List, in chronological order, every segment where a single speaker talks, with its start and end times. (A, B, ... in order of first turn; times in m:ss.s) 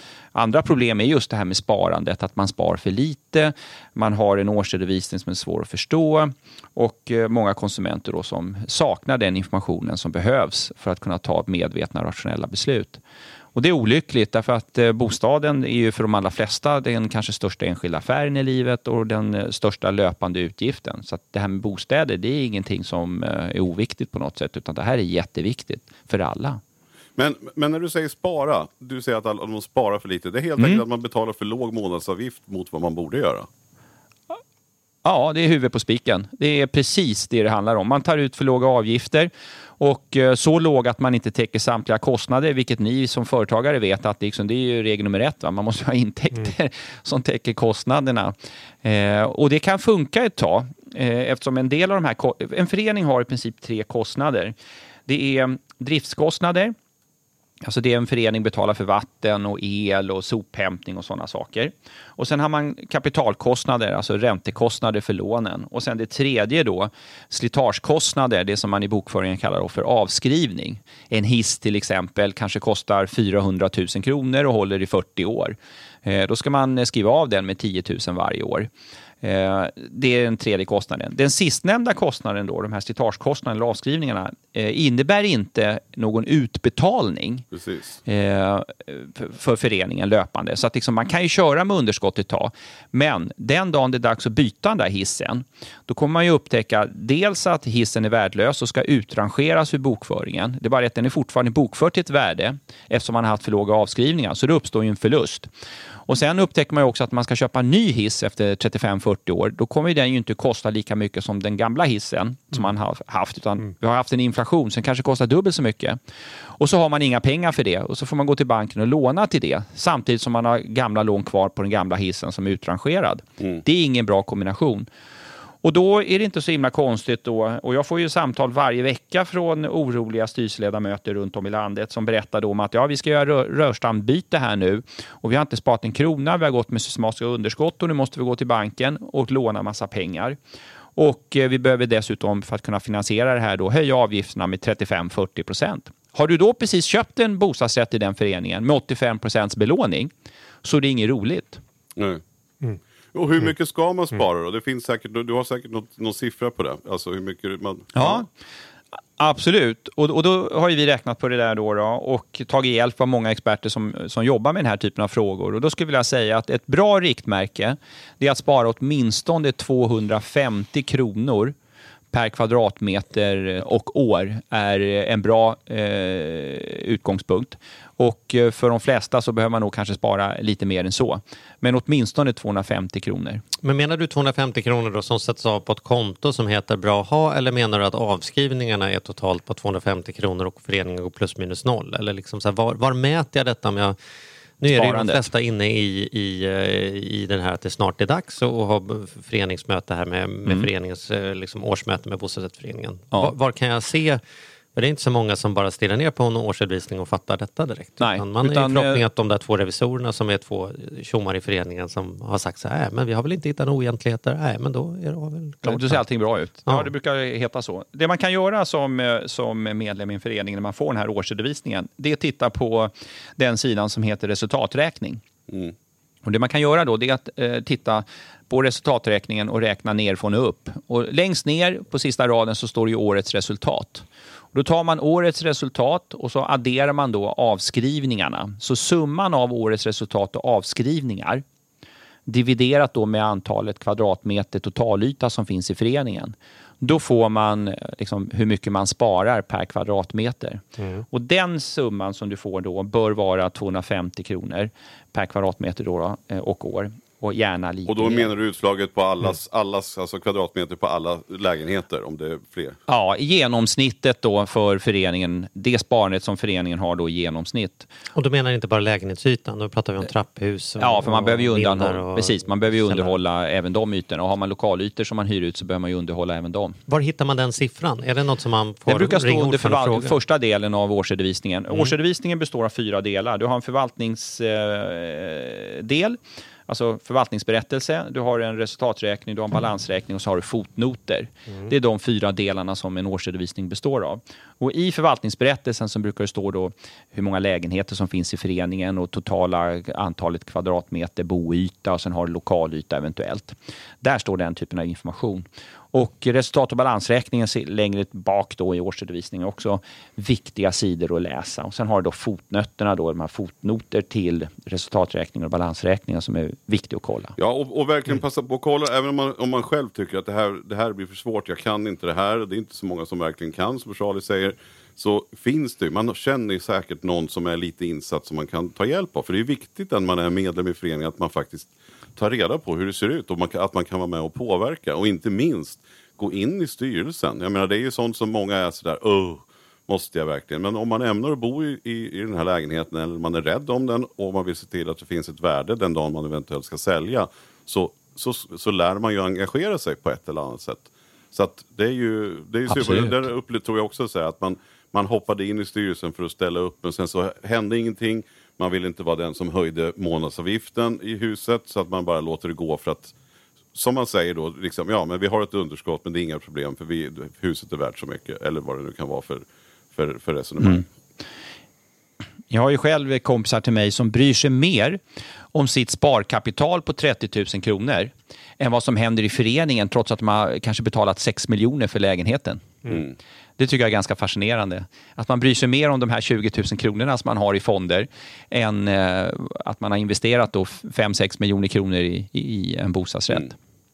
0:00.3-0:13.0 A
0:13.6-0:26.6 A
0:27.2-0:33.5 B
0:30.6-0:30.8 A
0:35.0-0:54.5 A
0:55.1-0:56.8 A
0:57.6-1:18.7 A
1:19.2-1:27.5 A
1:27.5-1:28.0 B
1:28.1-1:45.5 A
1:46.1-1:56.0 A
1:56.6-2:04.9 A
2:05.6-2:20.4 A
2:21.0-2:30.1 A
2:30.6-2:31.6 A
2:32.0-2:32.2 B
2:33.1-2:38.2 B
2:38.0-2:38.3 A
2:39.2-2:51.6 A
2:52.1-3:03.4 A
3:03.6-3:14.0 C
3:14.6-3:24.2 C
3:14.7-3:15.3 A
3:24.7-3:36.0 C
3:28.0-3:29.0 A
3:35.6-3:45.2 A
3:45.5-3:45.7 B
3:46.2-4:01.4 A
4:02.3-4:18.3 A
4:10.8-4:11.0 C
4:17.9-4:22.8 B
4:22.9-4:27.9 A
4:28.2-4:33.2 C
4:30.8-4:36.8 A
4:36.9-4:40.2 C
4:38.9-5:17.4 A
5:17.4-6:03.1 B
6:03.8-6:10.9 B
6:12.5-6:15.0 A
6:15.5-6:22.8 A
6:23.6-6:33.6 A